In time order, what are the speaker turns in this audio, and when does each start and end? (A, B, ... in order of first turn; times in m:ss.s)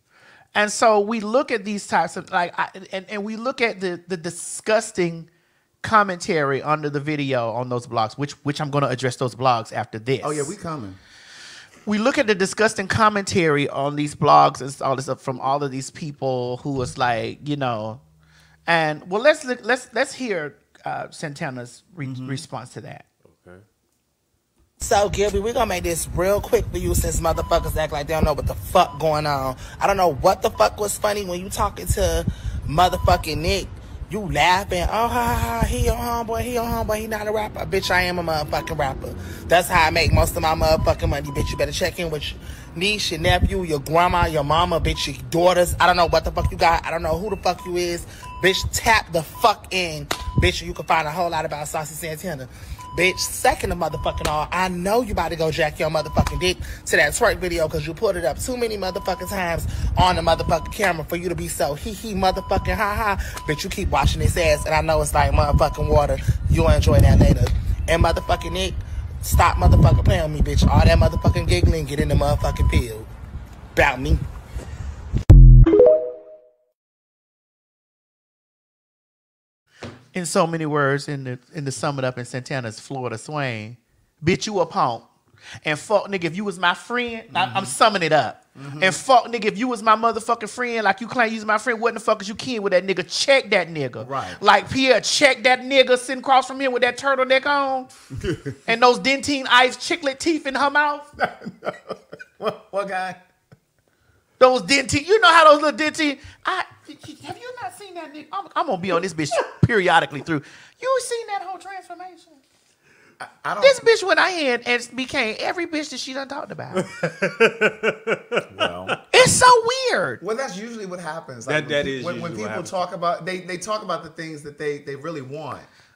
0:00.6-0:05.3 A
0:05.8-0:10.5 A
0:10.2-0:11.0 B
0:11.9-0:18.0 A
0:18.7-0:23.0 A
0:22.0-0:22.4 B
0:23.2-0:23.6 C
0:24.8-1:13.1 D
1:13.8-1:14.2 D
1:20.1-1:25.1 A
1:25.6-1:37.9 A
1:27.3-1:27.8 B
1:28.6-1:29.0 B
1:34.0-1:34.4 B
1:38.7-1:41.1 A
1:41.2-1:43.2 B
1:44.4-1:52.4 A
1:53.2-1:53.8 B
1:53.6-1:56.9 A
1:56.9-1:58.9 C
1:58.5-1:59.0 B
1:59.1-2:00.2 A
2:00.2-2:05.7 B
2:01.5-2:02.8 C